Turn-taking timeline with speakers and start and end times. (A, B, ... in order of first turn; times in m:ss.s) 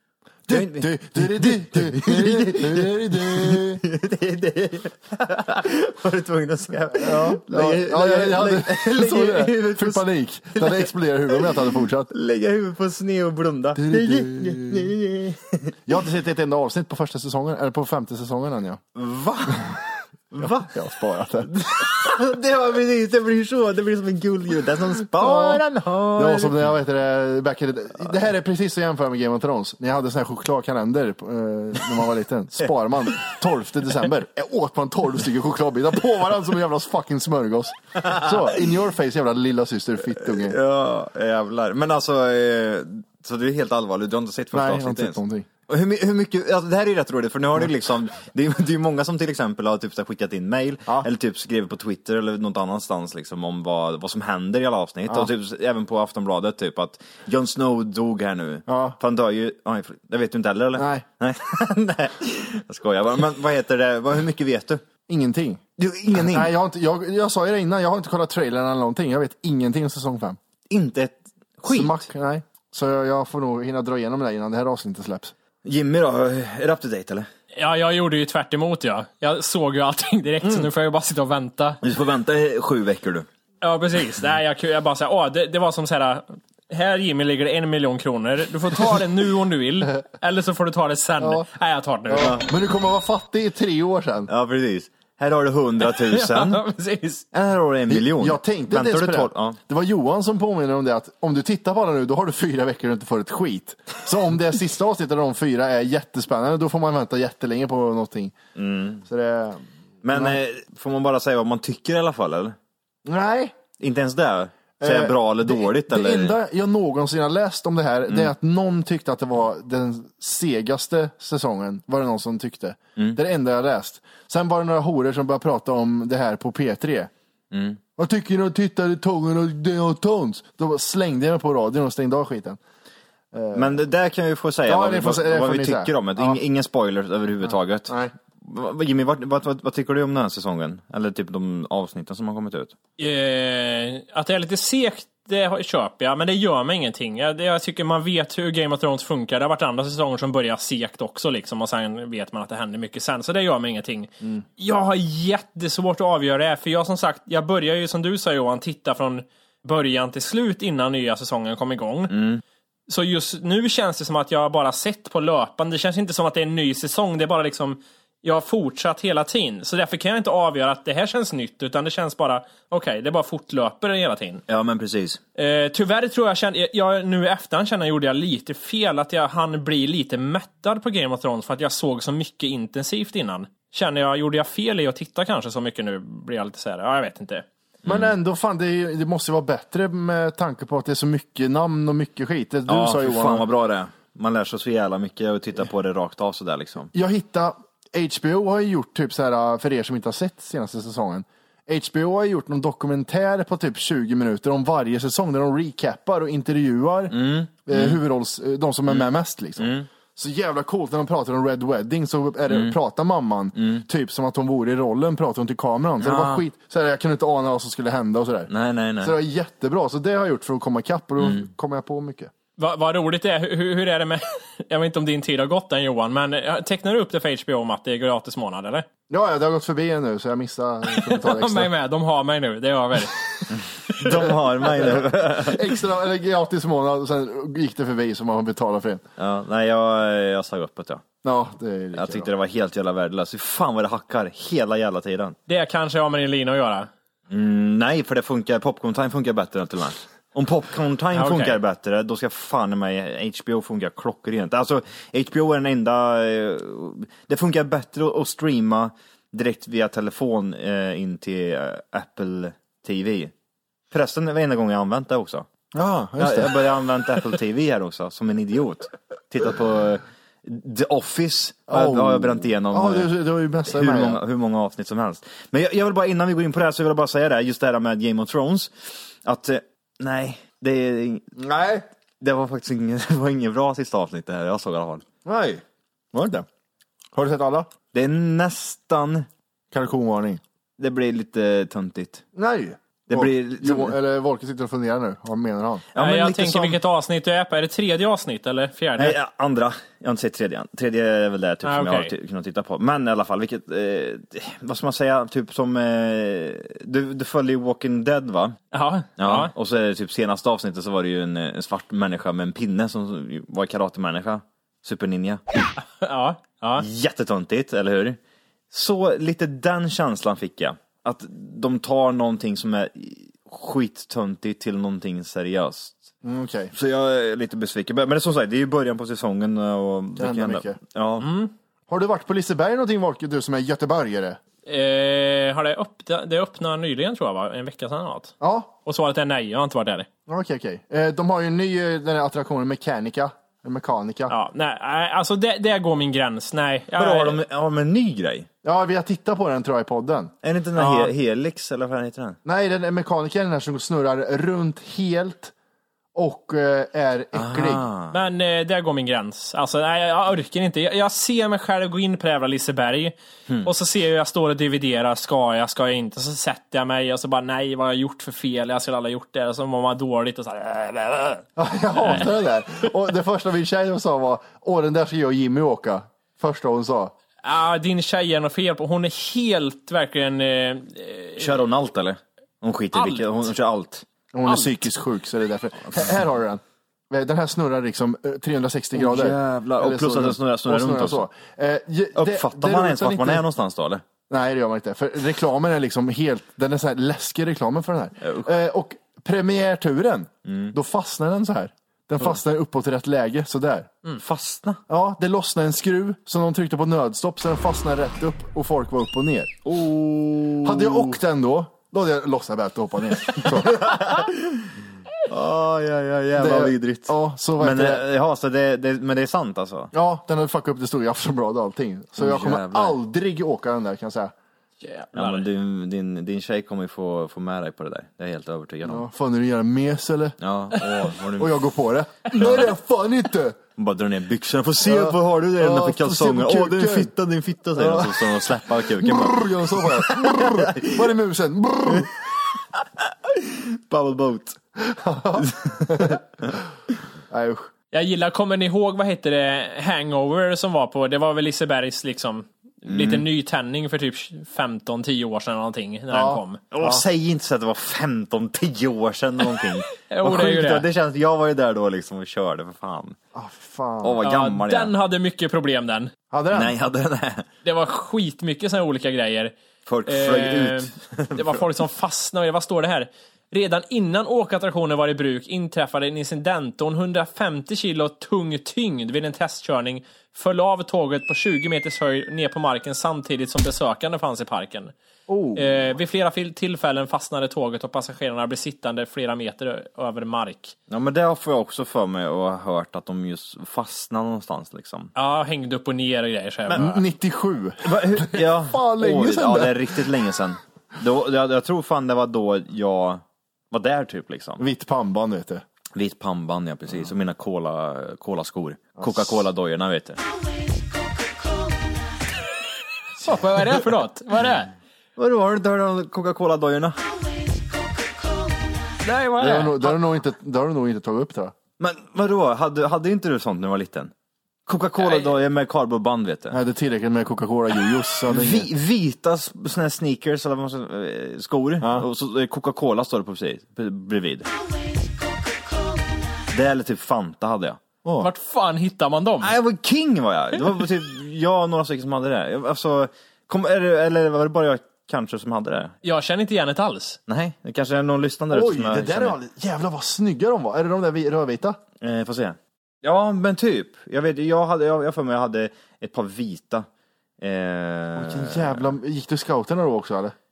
0:00.5-0:03.8 A
0:00.5-0:15.7 B
0:07.0-0:12.1 A
0:13.8-0:14.9 A
0:15.9-0:18.8 A
0:18.9-0:20.8 B
0:20.4-0:21.9 A
0:21.4-0:26.7 B
0:25.1-0:25.6 A
0:26.1-0:40.6 A
0:38.0-0:38.6 B
0:40.3-1:04.8 B
0:44.5-0:45.5 A
0:58.7-0:59.0 A
1:00.8-1:01.0 A
1:05.1-1:05.6 A
1:05.8-1:06.5 B
1:06.1-1:10.4 A
1:10.7-1:12.0 B
1:11.7-1:15.3 A
1:15.6-1:17.3 B
1:17.5-1:21.8 C
1:21.8-1:23.2 B
1:23.6-1:32.3 C
1:31.2-1:31.4 A
1:32.1-1:34.3 A
1:32.2-1:32.4 B
1:34.3-1:36.6 B
1:35.8-1:37.2 C
1:37.3-1:39.6 B
1:37.9-1:48.4 A
1:48.6-1:49.0 B
1:49.0-1:50.4 A
1:50.0-1:52.5 B
1:53.0-1:53.6 A
1:53.8-1:56.3 B
1:54.8-2:07.1 A
2:07.5-2:07.8 B
2:08.0-2:12.6 A
2:13.3-2:13.7 A
2:13.5-2:22.7 B
2:14.6-2:16.4 A
2:23.0-2:42.1 C
2:42.1-2:42.4 B
2:42.9-2:54.4 C
2:54.5-2:55.2 B
2:55.4-3:07.4 C
3:07.8-3:08.1 B
3:07.8-3:13.5 A
3:12.7-3:16.9 B
3:16.9-3:38.5 A
3:27.1-3:28.0 B
3:29.6-3:29.9 B
3:32.5-3:32.8 B
3:33.6-3:33.8 B
3:36.0-3:36.4 B
3:38.5-3:39.2 B
3:39.0-3:42.3 A
3:42.6-3:48.8 C
3:49.1-3:51.7 A
3:50.9-3:53.2 C
3:53.5-3:55.6 B
3:54.0-3:59.0 A
3:59.2-4:01.0 B
4:01.2-4:02.3 A
4:01.9-4:05.4 B
4:05.5-4:06.9 C
4:07.3-4:23.3 B
4:11.1-4:11.6 C
4:23.9-4:25.4 B
4:25.7-4:26.5 A
4:26.2-4:33.1 B
4:31.7-4:34.2 A
4:33.7-4:38.7 B
4:39.2-4:41.2 B
4:41.4-4:41.8 A
4:42.2-4:45.0 B
4:45.2-4:46.4 A
4:47.1-4:47.7 A
4:47.9-4:49.3 B
4:49.7-4:50.4 A
4:50.8-4:52.2 B
4:52.3-4:55.8 A
4:53.1-4:54.0 B
4:55.9-4:56.8 B
4:56.0-4:59.2 C
4:59.0-5:08.6 B
5:01.6-5:02.1 C
5:08.7-5:09.5 C
5:09.2-5:15.4 B
5:15.9-5:16.8 C
5:16.8-5:18.2 B
5:18.7-5:26.1 B
5:26.2-5:26.7 A
5:26.7-5:31.3 B
5:30.2-5:30.8 A
5:31.2-5:31.5 C
5:31.9-5:34.4 A
5:34.6-5:40.1 C
5:38.4-5:38.7 A
5:40.3-5:44.3 A
5:44.3-5:47.4 C
5:47.0-5:48.5 B
5:48.6-5:50.3 A
5:50.4-5:52.4 B
5:50.8-5:51.1 C
5:52.4-5:55.5 A
5:56.1-5:57.8 A
5:57.3-5:58.2 B
5:58.1-6:11.4 C
6:11.6-6:17.1 A
6:17.4-6:21.6 C
6:21.4-6:24.0 B
6:22.9-6:23.3 C
6:24.3-6:33.4 A
6:24.5-6:24.7 C
6:28.9-6:31.3 B
6:32.1-6:34.0 B
6:34.3-6:43.9 A
6:38.2-6:38.5 B
6:40.4-6:40.7 B
6:44.2-6:44.8 B
6:44.9-6:49.6 A
6:49.6-6:51.2 B
6:50.6-6:53.8 A
6:53.4-6:59.9 B
6:56.4-6:58.0 A
6:59.9-7:04.3 A
7:02.2-7:03.0 B
7:04.8-7:05.4 C
7:05.1-7:09.0 B
7:08.8-7:10.4 A
7:10.4-7:11.6 B
7:11.4-7:13.6 A
7:12.4-7:12.6 B
7:13.8-7:21.1 B
7:14.8-7:17.1 A
7:17.8-7:22.1 A
7:23.2-7:24.6 B
7:24.8-7:26.2 A
7:25.4-7:26.2 B
7:27.3-7:27.7 A
7:27.9-7:36.6 C
7:32.9-7:33.2 B
7:36.1-7:37.0 A
7:36.7-7:43.2 B
7:40.0-7:40.8 C
7:43.3-7:44.2 A
7:44.0-7:44.9 B
7:44.2-7:46.1 C
7:46.3-7:46.7 A
7:46.5-7:47.4 B
7:47.6-7:49.5 C
7:49.8-7:51.6 B
7:50.1-8:04.9 C
8:05.3-8:05.8 A
8:05.6-8:10.7 C
8:10.9-8:15.1 B
8:15.1-8:17.0 C
8:16.7-8:20.0 A
8:17.8-8:24.6 B
8:24.6-8:25.6 A
8:25.9-8:30.2 B
8:29.0-8:29.4 A
8:33.2-8:34.7 C
8:35.2-8:37.0 B
8:39.0-8:39.9 C
8:39.4-8:41.5 A
8:41.8-8:44.1 B
8:44.7-8:46.6 B
8:45.0-8:45.3 C
8:46.5-8:48.7 A
8:48.3-8:54.5 B
8:51.8-8:52.0 A
8:56.5-8:57.8 B
8:58.2-8:59.5 C
8:59.4-9:05.9 B
9:06.0-9:07.2 C
9:07.3-9:09.4 B
9:08.5-9:11.8 A
9:12.0-9:16.8 B
9:17.4-9:18.9 B
9:18.1-9:20.3 A